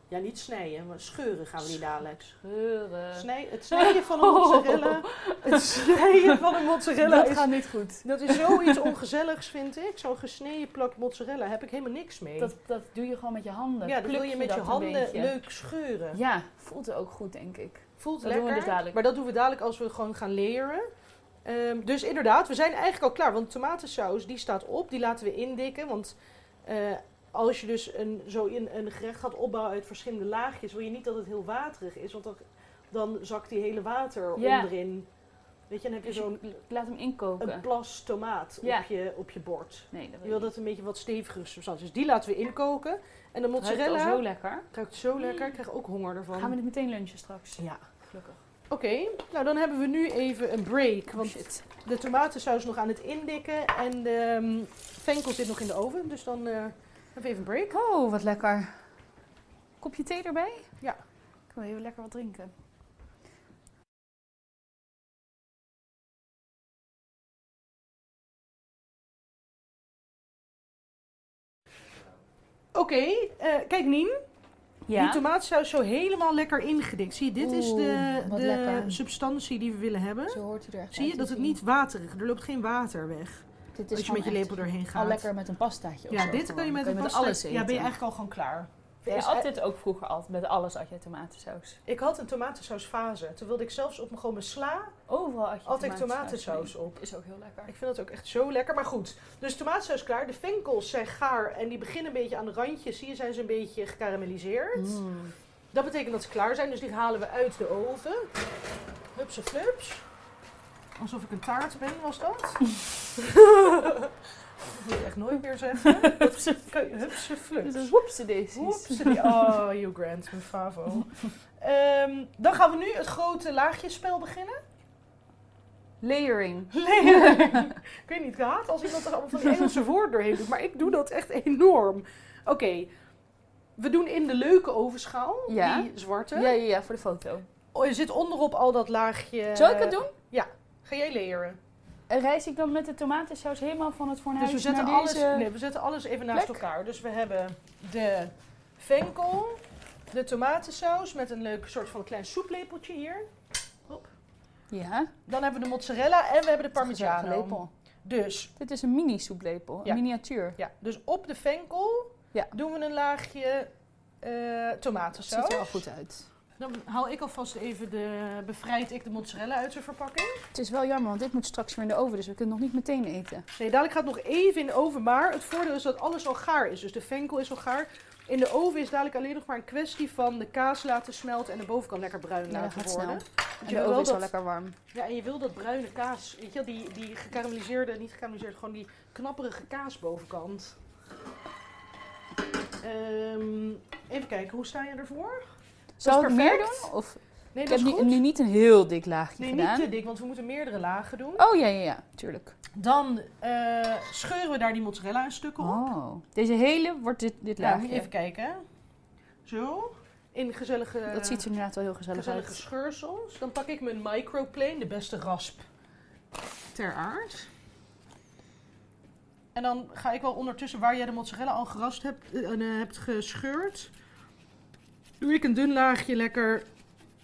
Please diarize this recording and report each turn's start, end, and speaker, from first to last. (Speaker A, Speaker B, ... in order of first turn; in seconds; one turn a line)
Speaker A: 0.1-2.4
Speaker B: 2.4-8.9
Speaker A: 3.1-12.5
Speaker B: 12.4-15.4
Speaker A: 13.8-16.2
Speaker B: 16.1-19.0
Speaker A: 18.0-20.9
Speaker A: 21.4-35.1
Speaker B: 34.4-34.7
Speaker A: 35.7-36.5
Speaker B: 36.0-37.7
Speaker A: 37.4-46.5
Speaker B: 38.6-38.9
Speaker B: 39.9-40.5
Speaker B: 43.6-45.5
Speaker B: 46.3-48.4
Speaker A: 48.7-57.8
Speaker B: 51.1-51.6
Speaker B: 57.7-58.8
Speaker B: 59.8-60.7
Speaker B: 61.5-62.5
Speaker A: 72.7-74.2
Speaker B: 74.9-75.2
Speaker A: 74.9-80.4
Speaker B: 77.4-79.0
Speaker B: 80.3-81.6
Speaker A: 80.9-85.3
Speaker B: 83.8-87.9
Speaker A: 86.1-89.5
Speaker B: 89.1-91.8
Speaker A: 91.9-95.0
Speaker B: 95.1-97.7
Speaker A: 95.7-97.0
Speaker A: 97.7-105.0
Speaker B: 104.8-105.3
Speaker A: 105.7-108.3
Speaker A: 109.1-110.0
Speaker A: 111.0-114.1
Speaker A: 114.7-117.9
Speaker B: 115.8-116.7
Speaker B: 117.6-119.6
Speaker A: 118.5-124.6
Speaker B: 126.0-127.7
Speaker A: 126.7-132.9
Speaker A: 133.8-136.5
Speaker B: 135.5-137.5
Speaker A: 137.7-141.6
Speaker B: 139.5-140.1
Speaker B: 142.1-145.5
Speaker A: 144.4-153.3
Speaker B: 146.3-146.6
Speaker B: 154.7-155.1
Speaker A: 155.3-158.5
Speaker B: 156.8-157.7
Speaker B: 158.6-160.6
Speaker A: 160.6-163.7
Speaker A: 164.2-165.8
Speaker B: 165.2-166.3
Speaker A: 166.6-170.4
Speaker B: 170.5-173.4
Speaker A: 173.5-184.3
Speaker B: 182.5-184.8
Speaker A: 184.9-190.8
Speaker A: 192.8-196.9
Speaker B: 196.0-199.9
Speaker A: 197.5-198.2
Speaker A: 199.4-201.4
Speaker B: 201.4-202.6
Speaker A: 202.7-205.8
Speaker B: 205.6-208.1
Speaker A: 207.6-208.6
Speaker A: 209.4-211.4
Speaker B: 211.1-212.6
Speaker A: 212.1-215.6
Speaker A: 216.7-217.5
Speaker A: 219.6-223.9
Speaker A: 225.2-226.7